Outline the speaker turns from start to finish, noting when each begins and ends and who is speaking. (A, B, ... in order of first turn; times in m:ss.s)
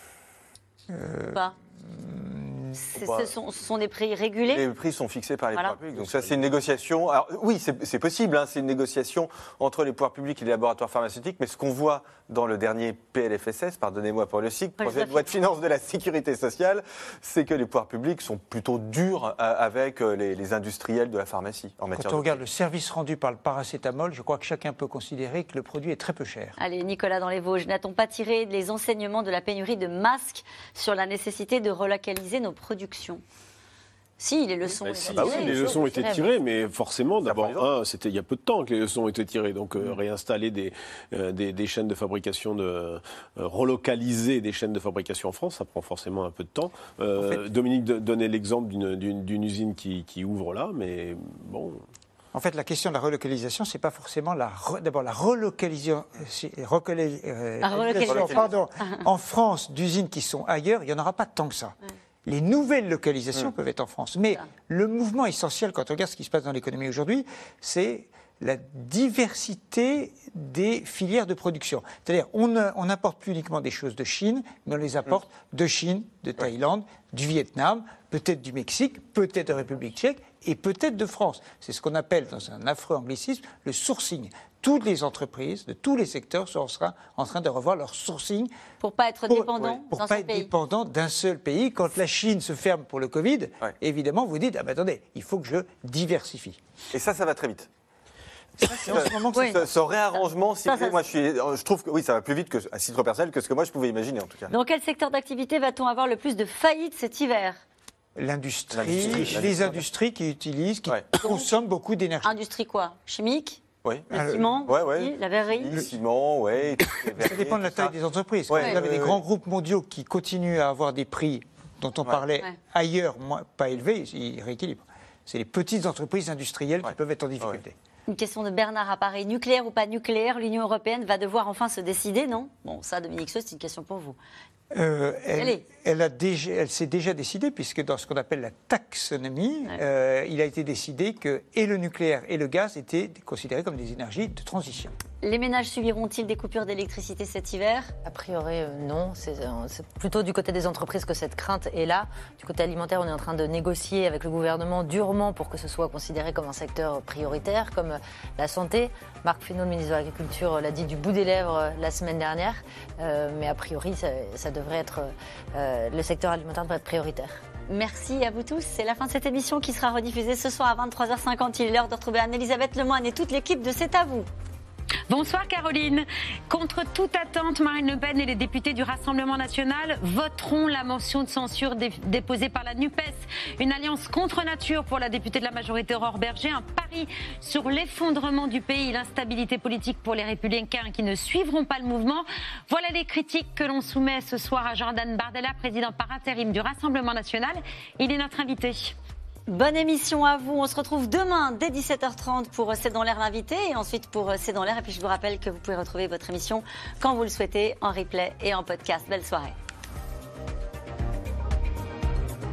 0:00.9-0:02.8 A
0:02.7-0:04.6 B
0:03.0-0:03.3 C
0:04.5-0:22.4 C
0:06.0-0:06.5 D
0:14.8-0:15.3 B
0:21.9-0:26.6 A
0:26.6-0:33.2 B
0:34.2-0:35.7 B
0:34.8-0:35.8 C
0:35.1-0:51.8 D
0:35.2-0:36.2 E
0:37.2-0:37.7 C
0:52.3-1:28.5 A
0:57.6-0:59.0 B
0:57.8-0:58.5 C
1:28.8-1:30.5 B
1:29.3-1:36.6 A
1:36.9-1:37.7 C
1:38.6-1:39.7 A
1:38.7-1:44.5 C
1:39.3-1:39.6 B
1:40.6-1:41.0 B
1:44.5-1:47.6 B
1:48.2-1:52.3 A
1:48.7-1:49.8 C
1:51.2-1:51.5 B
1:52.2-1:55.8 B
1:53.8-1:54.1 C
1:54.1-1:54.6 A
1:54.6-1:57.9 C
1:57.2-2:07.8 A
1:58.5-1:59.2 C
2:06.8-2:07.6 C
2:08.1-2:14.2 B
2:14.7-2:24.9 A
2:15.4-2:15.6 B
2:25.2-2:27.9 B
2:28.0-2:47.4 E
2:47.7-2:54.3 B
2:55.1-3:18.9 F
3:19.5-3:29.5 B